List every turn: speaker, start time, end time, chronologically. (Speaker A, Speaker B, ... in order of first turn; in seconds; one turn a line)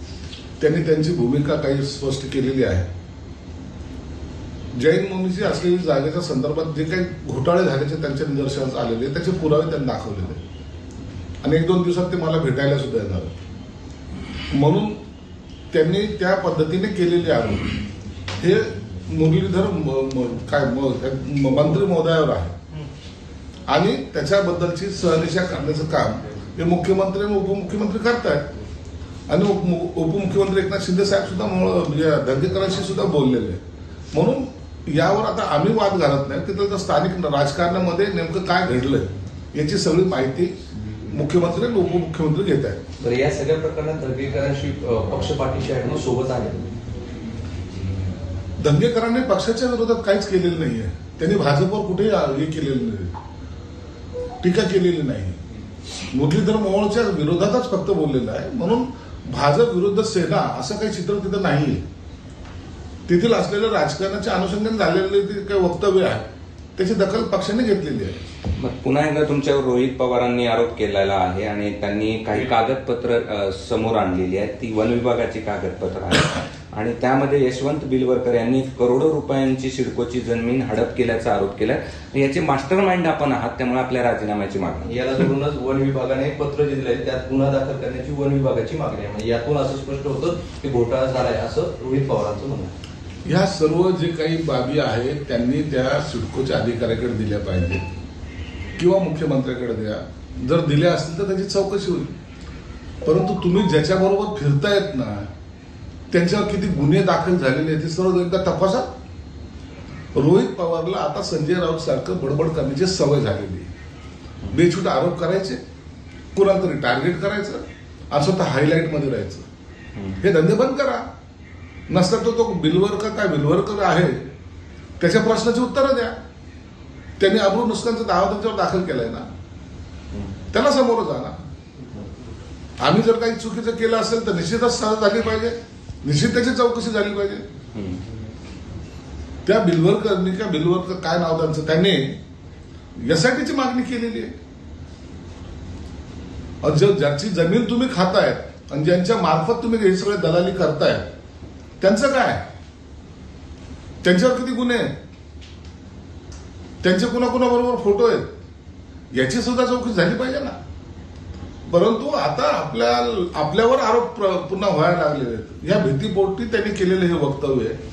Speaker A: 0.6-2.9
Speaker A: 4.8-10.4
Speaker A: 11.4-13.3
Speaker A: 14.5-15.0
Speaker A: 15.7-17.7
Speaker A: 18.4-22.5
Speaker A: 23.7-28.4
Speaker A: 29.3-33.6
Speaker A: 34.1-40.6
Speaker A: 41.1-42.8
Speaker B: 43.0-46.6
Speaker A: 48.6-53.1
Speaker A: 54.4-55.4
Speaker A: 56.1-61.8
Speaker A: 63.1-66.2
Speaker A: 66.8-68.2
Speaker C: 68.6-84.9
Speaker B: 84.8-92.7
Speaker A: 93.2-97.8
Speaker A: 98.8-102.1
Speaker A: 103.0-105.3
Speaker A: 106.1-108.9
Speaker A: 110.2-113.7
Speaker A: 114.5-115.6
Speaker A: 116.3-119.4
Speaker A: 120.2-121.0
Speaker A: 121.9-124.3
Speaker A: 125.0-126.2
Speaker A: 127.2-129.3
Speaker A: 130.5-131.4
Speaker A: 132.8-137.4
Speaker C: 137.7-138.0
Speaker A: 139.4-142.2
Speaker A: 143.0-144.3
Speaker A: 146.6-151.1
Speaker A: 151.8-152.4
Speaker A: 154.0-154.9
Speaker A: 156.8-158.3
Speaker A: 159.1-160.6
Speaker A: 161.7-167.8